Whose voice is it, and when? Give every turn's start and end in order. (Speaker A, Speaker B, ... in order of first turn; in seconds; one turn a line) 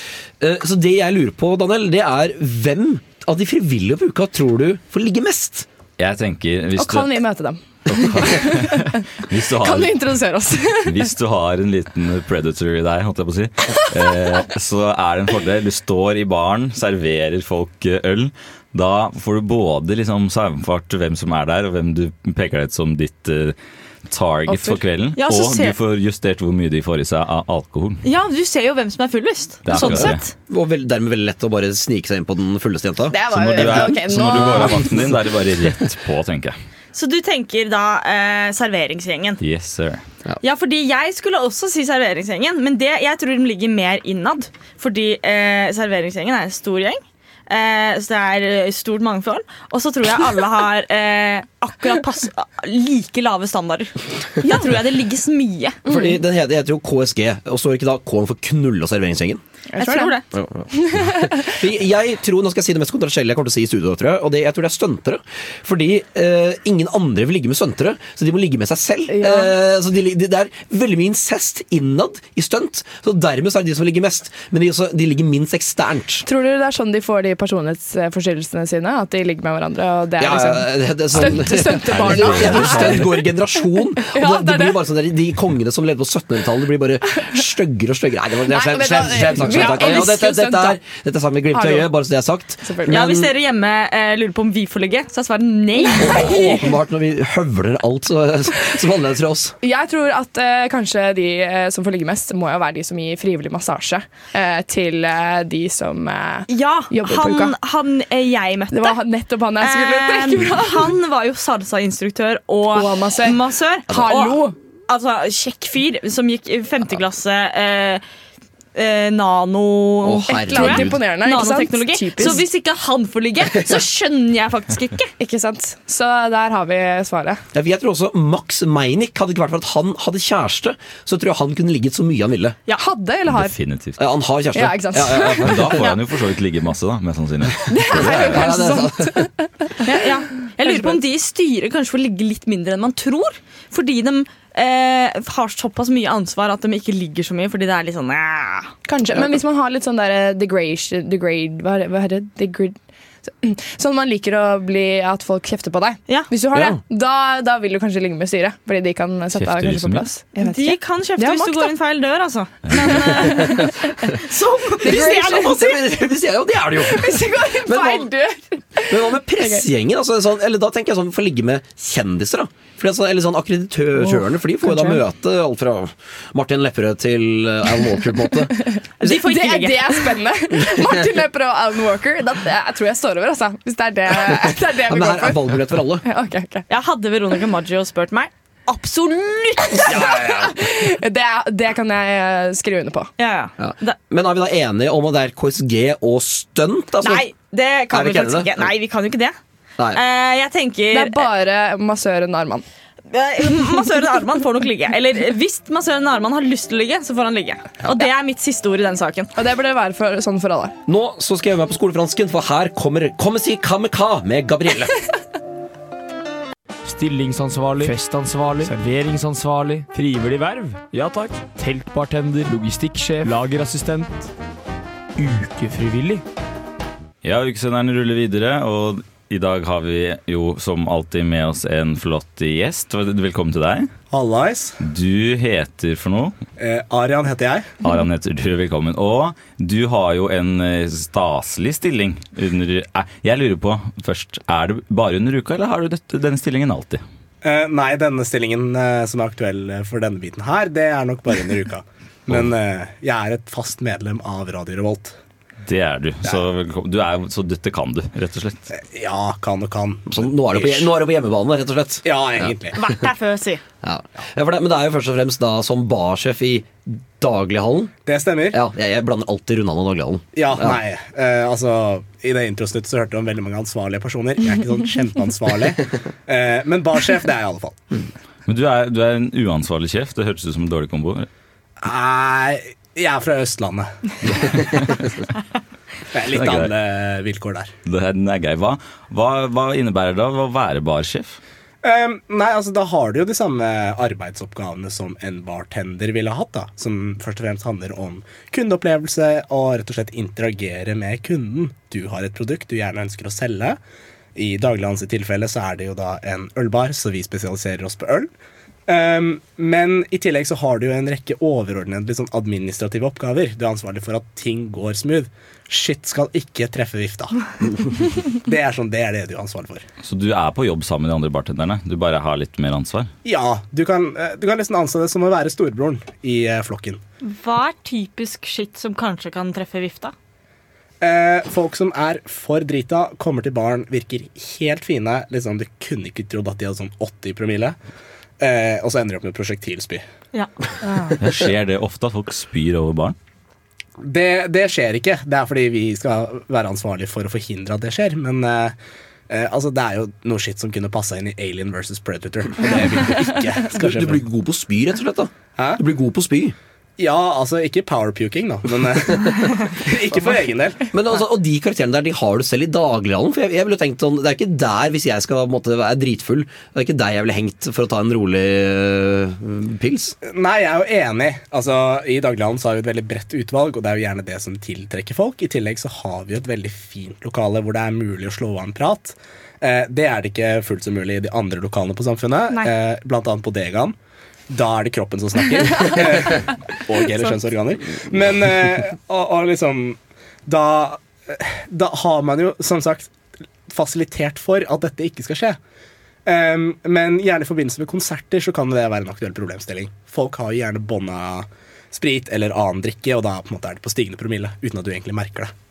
Speaker A: 0.4-5.7
Speaker B: 6.0-7.2
Speaker C: 6.8-11.1
Speaker B: 7.9-10.3
Speaker B: 10.8-28.0
Speaker C: 24.4-24.8
Speaker D: 25.1-25.7
Speaker D: 28.0-30.3
Speaker B: 29.6-30.2
Speaker A: 29.8-34.7
Speaker C: 33.1-35.1
Speaker B: 33.3-36.6
Speaker D: 36.9-39.4
Speaker B: 39.4-40.0
Speaker D: 40.4-55.8
Speaker C: 55.9-56.2
Speaker A: 55.9-59.4
Speaker C: 59.7-61.6
Speaker D: 59.8-60.2
Speaker A: 60.3-76.2
Speaker C: 69.1-69.5
Speaker C: 76.2-84.8
Speaker A: 80.2-93.3
Speaker B: 81.1-83.1
Speaker C: 87.1-87.3
Speaker C: 88.4-90.8
Speaker C: 91.5-91.9
Speaker C: 92.6-93.0
Speaker D: 92.9-96.6
Speaker C: 96.0-96.6
Speaker A: 96.0-99.5
Speaker C: 99.6-107.5
Speaker D: 106.5-109.0
Speaker C: 108.7-111.0
Speaker D: 109.6-118.0
Speaker C: 112.7-114.5
Speaker A: 113.9-114.1
Speaker D: 118.7-125.1
Speaker A: 120.0-121.0
Speaker C: 120.2-122.5
Speaker C: 125.2-127.4
Speaker A: 127.5-132.6
Speaker C: 132.7-133.5
Speaker B: 133.2-134.0
Speaker A: 134.0-135.9
Speaker C: 134.5-135.6
Speaker B: 135.4-138.6
Speaker C: 137.7-139.7
Speaker A: 137.9-139.3
Speaker D: 139.8-148.7
Speaker C: 140.6-141.0
Speaker C: 148.8-161.7
Speaker A: 156.5-156.8
Speaker B: 159.3-160.1
Speaker D: 160.4-165.8
Speaker C: 162.8-163.3
Speaker C: 164.8-165.7
Speaker A: 164.8-168.1
Speaker C: 166.8-169.6
Speaker A: 168.9-179.1
Speaker C: 173.9-175.0
Speaker D: 179.0-180.2
Speaker C: 179.1-186.6
Speaker A: 180.7-181.0
Speaker A: 184.1-186.0
Speaker D: 186.7-190.2
Speaker C: 189.8-193.1
Speaker A: 189.8-190.5
Speaker D: 193.2-193.9
Speaker A: 193.6-197.3
Speaker D: 197.0-199.3
Speaker A: 197.9-198.7
Speaker D: 199.9-201.2
Speaker C: 200.9-202.6
Speaker D: 203.1-209.3
Speaker C: 209.3-210.7
Speaker A: 210.9-214.9
Speaker E: 216.9-220.7
Speaker E: 221.6-224.1
Speaker E: 225.2-226.2
Speaker B: 227.2-233.9
Speaker F: 234.1-234.8
Speaker B: 234.8-236.3
Speaker F: 236.6-237.7
Speaker B: 237.8-247.0
Speaker F: 247.4-255.2
Speaker B: 255.7-258.7
Speaker F: 258.7-260.9
Speaker A: 260.1-262.6
Speaker F: 262.0-262.8
Speaker D: 262.7-263.6
Speaker A: 263.8-267.9
Speaker F: 268.1-268.6
Speaker A: 268.5-270.8
Speaker F: 270.3-277.8
Speaker B: 278.5-281.3
Speaker F: 281.8-284.6
Speaker F: 286.1-287.7
Speaker B: 286.3-286.7
Speaker B: 287.8-291.4
Speaker F: 291.8-303.8
Speaker F: 304.3-308.3
Speaker F: 308.9-319.8
Speaker B: 320.0-323.1
Speaker F: 323.2-327.0
Speaker D: 327.2-330.1
Speaker F: 331.0-337.8
Speaker F: 338.4-340.0
Speaker C: 340.9-341.1
Speaker B: 341.2-343.1
Speaker F: 344.0-348.8
Speaker F: 349.3-354.2
Speaker A: 352.6-353.1
Speaker A: 353.7-356.5
Speaker F: 355.6-355.8
Speaker F: 357.0-360.9
Speaker A: 360.9-370.1
Speaker F: 370.2-383.9
Speaker F: 384.5-395.6
Speaker F: 396.2-405.5